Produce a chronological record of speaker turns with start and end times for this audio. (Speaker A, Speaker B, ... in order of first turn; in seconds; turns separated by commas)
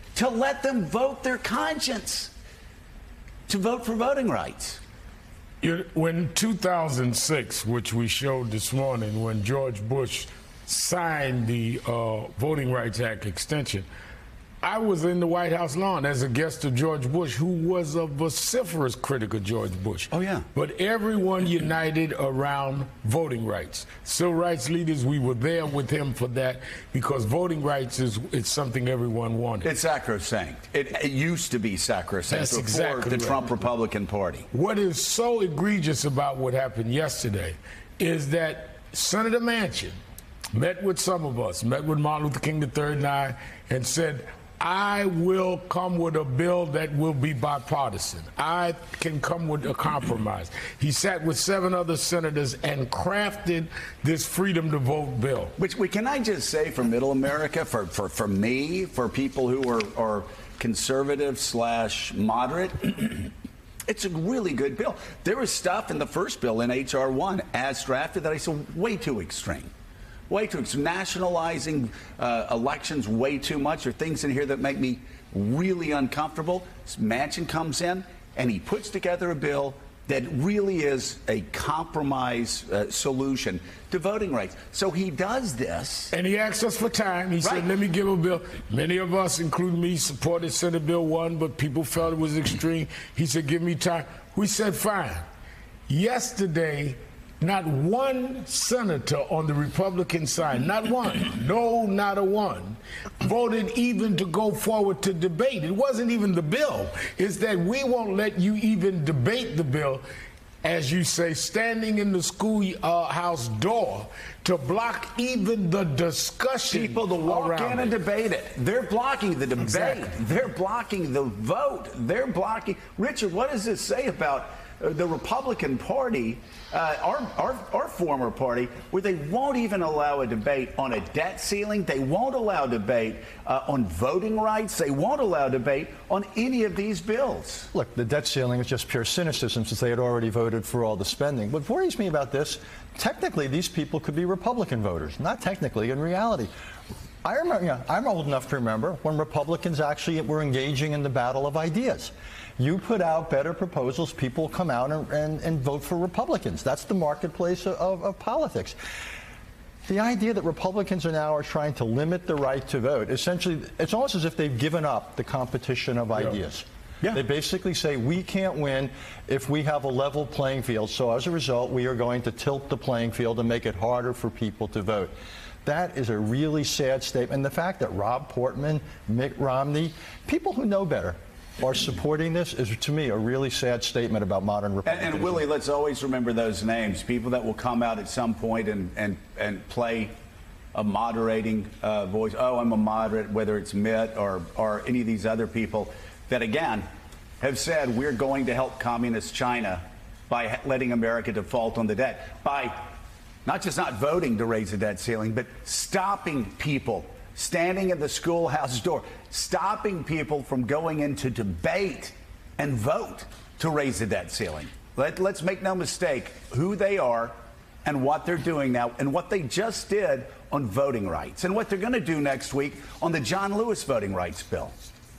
Speaker A: 0.1-2.3, Speaker A: 3.5-4.8, Speaker B: 5.6-13.9, Speaker B: 14.6-29.7, Speaker A: 20.1-20.5, Speaker A: 29.6-34.5, Speaker B: 32.3-33.5, Speaker B: 34.5-40.0, Speaker B: 40.5-55.5, Speaker A: 55.6-63.3, Speaker A: 63.9-69.7, Speaker A: 70.3-86.1, Speaker B: 86.1-95.2, Speaker A: 87.4-87.7, Speaker B: 95.9-110.0, Speaker B: 110.6-117.9, Speaker A: 116.7-137.7, Speaker B: 119.7-120.0, Speaker C: 137.7-146.5, Speaker C: 147.2-158.8, Speaker C: 159.9-175.1, Speaker C: 175.6-185.5, Speaker A: 184.8-190.1, Speaker A: 190.7-196.9, Speaker A: 197.4-202.9, Speaker A: 203.4-224.8